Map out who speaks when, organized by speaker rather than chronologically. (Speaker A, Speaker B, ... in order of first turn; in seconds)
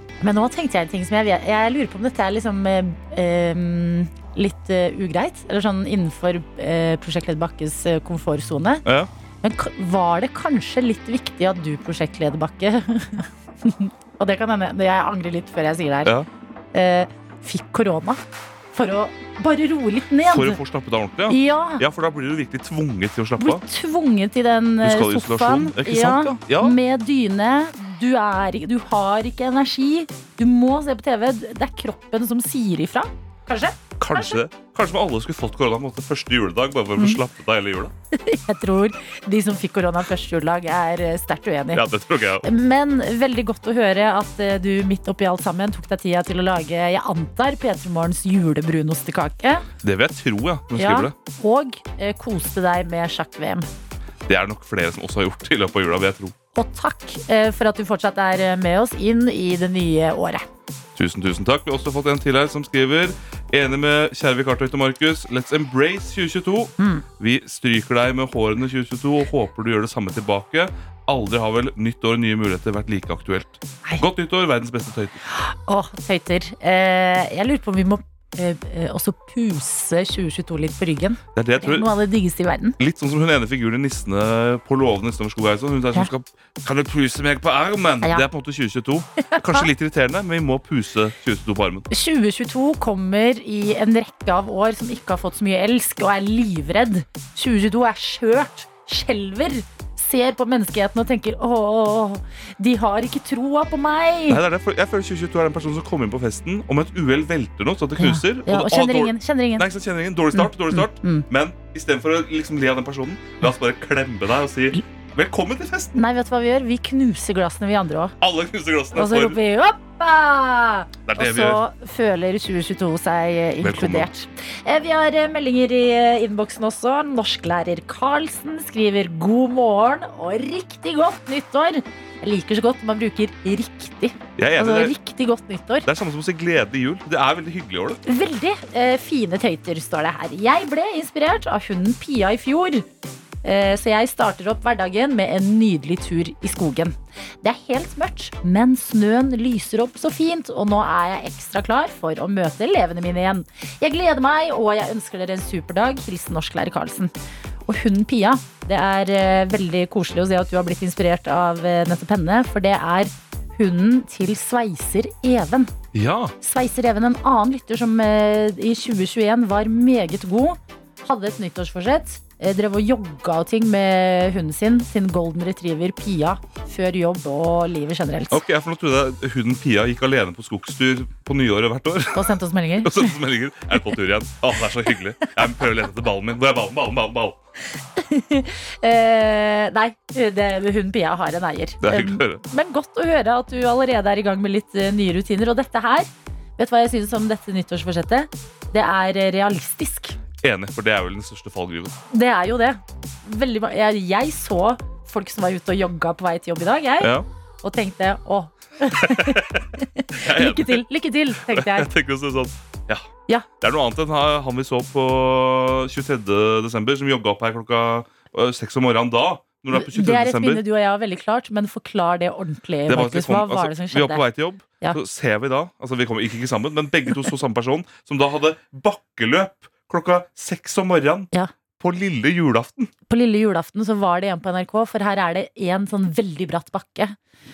Speaker A: 0.2-8.8, 9.4-16.1, 16.7-18.2, 18.7-20.6, 21.3-21.8, 23.4-34.4, 38.1-41.8, 42.4-49.6, 50.7-53.7, 56.5-60.4, 66.8-67.0, 75.3-82.8, 89.3-89.7, 91.9-104.4, 108.0-109.7, 110.3-111.3, 115.9-118.1, 118.9-135.9, 138.0-142.8, 143.4-157.1, 157.7-165.7, 166.4-178.4, 182.1-183.2, 187.9-200.2, 202.1-211.9, 219.7-224.2, 233.1-237.2
Speaker B: 8.8-9.1, 20.2-23.6, 24.8-26.8, 34.0-37.9, 41.7-42.4, 49.8-51.1, 54.3-56.3, 60.9-75.2, 81.3-81.9, 82.8-91.9, 104.3-116.0, 118.2-119.4, 121.0-121.6, 123.6-124.1, 134.4-134.9, 135.8-138.0, 165.9-166.3, 178.3-187.4, 191.8-192.4, 200.4-201.9, 207.0-207.2, 209.0-209.6, 210.1-213.1, 213.6-220.6, 222.9-232.9